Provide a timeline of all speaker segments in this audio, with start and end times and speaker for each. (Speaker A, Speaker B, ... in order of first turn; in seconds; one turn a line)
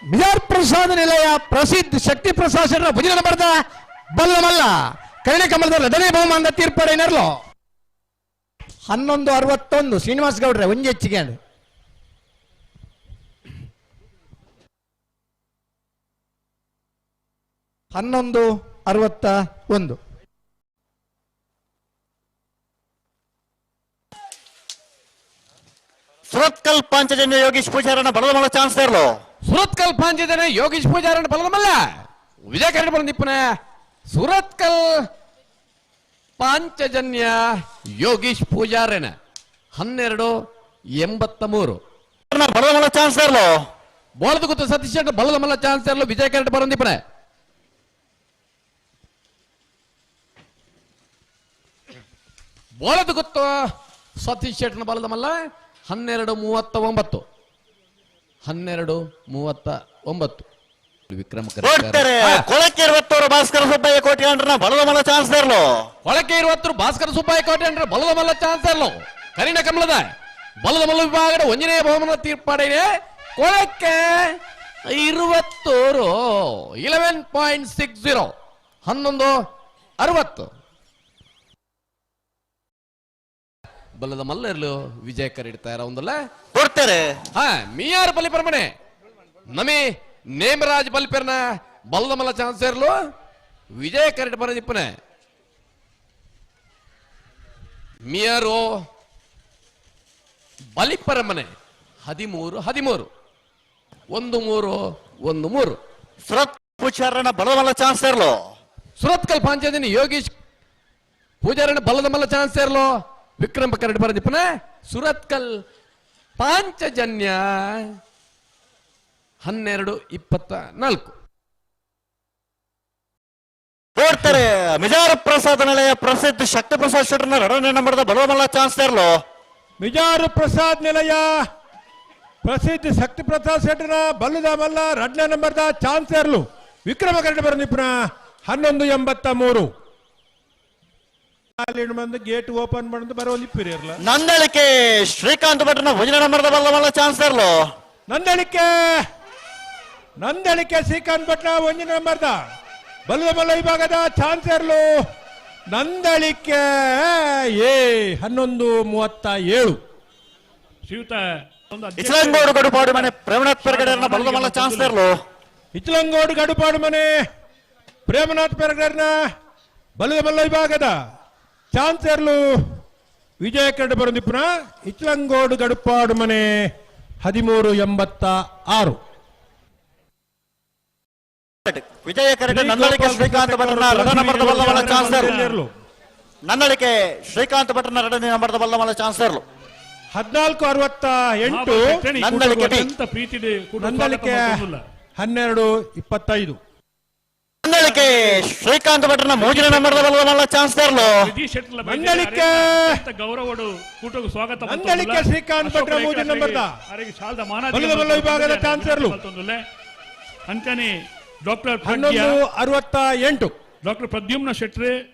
Speaker A: 0.1-3.6
Speaker A: 4.1-7.3
Speaker A: 8.9-11.4
Speaker A: 17.9-20.0
Speaker B: 26.3-29.1
Speaker C: 29.4-33.6
Speaker C: 34.1-35.0
Speaker C: 36.4-39.1
Speaker C: 39.7-40.4
Speaker C: 41.0-41.8
Speaker B: 42.3-43.5
Speaker C: 44.2-47.0
Speaker C: 52.8-53.6
Speaker C: 54.2-57.2
Speaker C: 58.4-60.5
Speaker C: 61.1-62.4
Speaker B: 61.6-65.9
Speaker C: 66.0-70.1
Speaker C: 70.6-78.3
Speaker C: 78.8-79.4
Speaker C: 80.0-80.5
Speaker C: 84.0-86.3
Speaker B: 86.5-87.2
Speaker C: 87.3-88.7
Speaker C: 89.5-93.0
Speaker C: 93.7-95.0
Speaker C: 98.0-98.8
Speaker C: 100.8-101.5
Speaker C: 102.0-103.1
Speaker C: 104.1-105.8
Speaker B: 106.3-108.4
Speaker C: 109.0-110.3
Speaker C: 111.4-115.6
Speaker C: 116.4-117.9
Speaker C: 119.4-121.1
Speaker B: 124.0-129.2
Speaker D: 124.1-124.4
Speaker D: 129.8-131.3
Speaker D: 132.4-137.9
Speaker D: 138.5-139.7
Speaker D: 141.6-144.0
Speaker B: 144.0-147.6
Speaker D: 148.1-148.8
Speaker D: 150.2-152.4
Speaker D: 153.1-154.9
Speaker D: 155.7-159.8
Speaker E: 160.9-165.0
Speaker B: 162.0-165.1
Speaker D: 165.7-167.1
Speaker D: 168.1-169.2
Speaker D: 170.0-170.9
Speaker D: 171.7-172.4
Speaker D: 173.4-176.7
Speaker D: 177.2-179.0
Speaker B: 181.6-185.3
Speaker D: 182.5-185.7
Speaker E: 184.6-185.6
Speaker B: 186.5-189.4
Speaker D: 190.1-192.0
Speaker E: 191.5-194.8
Speaker B: 192.2-192.9
Speaker D: 193.8-194.6
Speaker D: 195.2-196.6
Speaker B: 197.6-201.3
Speaker E: 197.8-198.4
Speaker E: 199.3-200.1
Speaker E: 200.9-209.6
Speaker D: 201.8-203.0
Speaker D: 204.6-206.7
Speaker D: 207.7-209.2
Speaker E: 210.5-210.9
Speaker E: 211.4-212.4
Speaker D: 211.8-213.5
Speaker E: 213.8-214.9